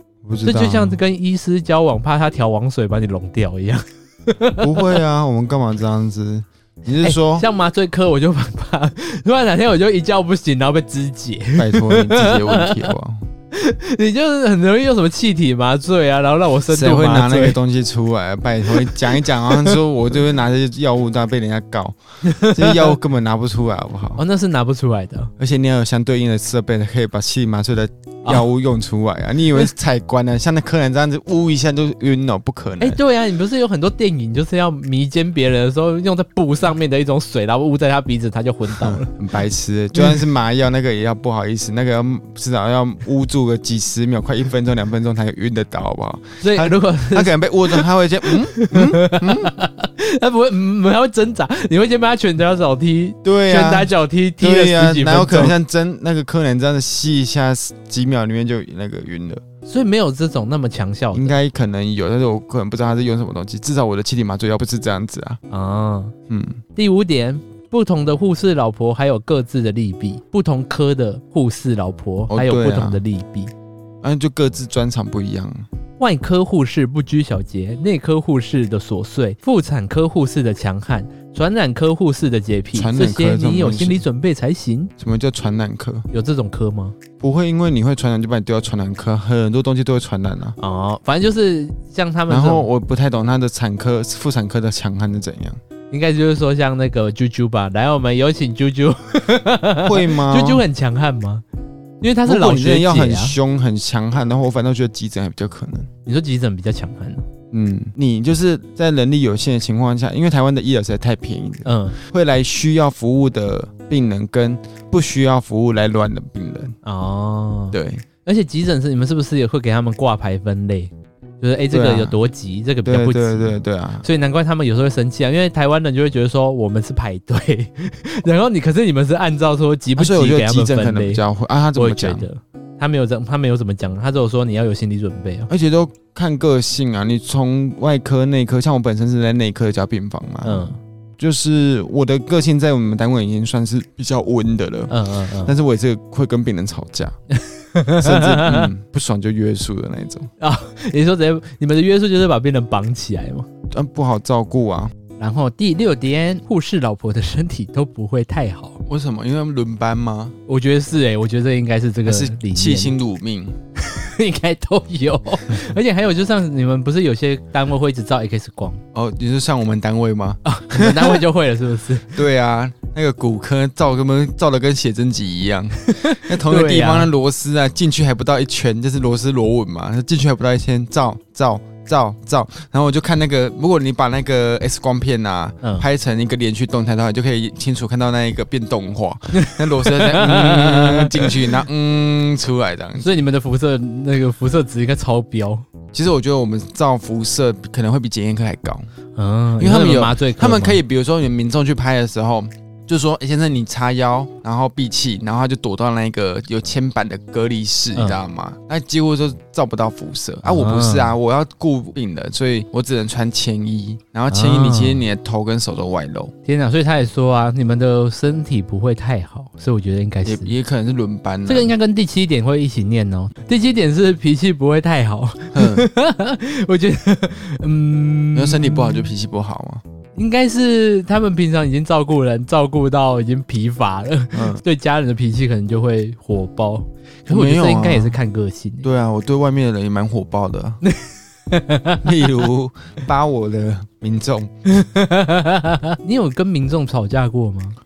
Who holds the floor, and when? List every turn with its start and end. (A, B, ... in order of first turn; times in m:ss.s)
0:00.2-0:01.0 A
0:00.4-0:05.0 B
0:04.6-0:07.5 A
0:07.0-0:12.9 B
0:11.6-0:13.2 A
0:13.5-0:17.6 B
0:16.7-0:24.2 A
0:18.7-0:19.8 B
0:22.2-0:23.0 B
0:24.2-0:25.3 B
0:25.4-0:33.0 A
0:32.8-0:39.1 B
0:38.7-0:49.6 A
0:46.4-0:55.6 B
0:53.2-0:59.4 A
0:59.7-1:01.4 B
1:01.1-1:05.4 A
1:05.5-1:06.1 B
1:06.3-1:06.6 A
1:06.8-1:13.5 B
1:12.3-1:13.0 A
1:14.0-1:15.7 A
1:16.0-1:24.9 B
1:22.7-1:24.0 A
1:25.0-1:26.1 A
1:26.1-1:27.0 B
1:27.2-1:30.6 A
1:30.6-1:32.7 B
1:32.3-1:35.6 A
1:35.9-1:41.4 B
1:39.8-1:40.6 A
1:42.0-1:43.4 B
1:42.2-1:45.9 A
1:46.1-1:47.2 B
1:47.5-1:56.8 A
1:51.6-1:52.0 B
1:56.8-2:11.2 B
1:57.7-1:58.0 A
2:01.7-2:02.2 A
2:02.8-2:04.0 A
2:10.0-2:12.3 A
2:11.8-2:15.5 B
2:15.5-2:27.2 A
2:20.4-2:20.8 B
2:24.9-2:25.5 B
2:27.3-2:28.7 B
2:28.0-2:30.3 A
2:30.4-2:33.5 B
2:33.7-2:34.9 A
2:35.2-2:38.8 B
2:38.9-2:40.4 A
2:40.5-2:43.0 B
2:42.1-2:43.6 A
2:43.8-2:48.8 B
2:48.9-2:51.2 A
2:50.4-2:52.2 B
2:52.1-3:13.2 A
2:55.8-2:57.1 B
3:09.3-3:11.6 B
3:13.0-3:15.7 B
3:15.9-3:18.9 A
3:19.2-3:20.8 B
3:19.6-3:36.3 A
3:30.4-3:31.2 B
3:34.3-3:35.1 B
3:36.5-3:40.5 B
3:40.2-3:41.7 A
3:41.5-3:49.1 B
3:45.5-3:45.9 A
3:48.4-3:49.8 A
3:50.2-3:58.9 B
3:54.3-3:54.6 A
3:57.3-3:58.2 A
3:58.8-4:00.8 A
4:00.8-4:02.3 B
4:02.0-4:04.5 A
4:04.7-4:07.8 B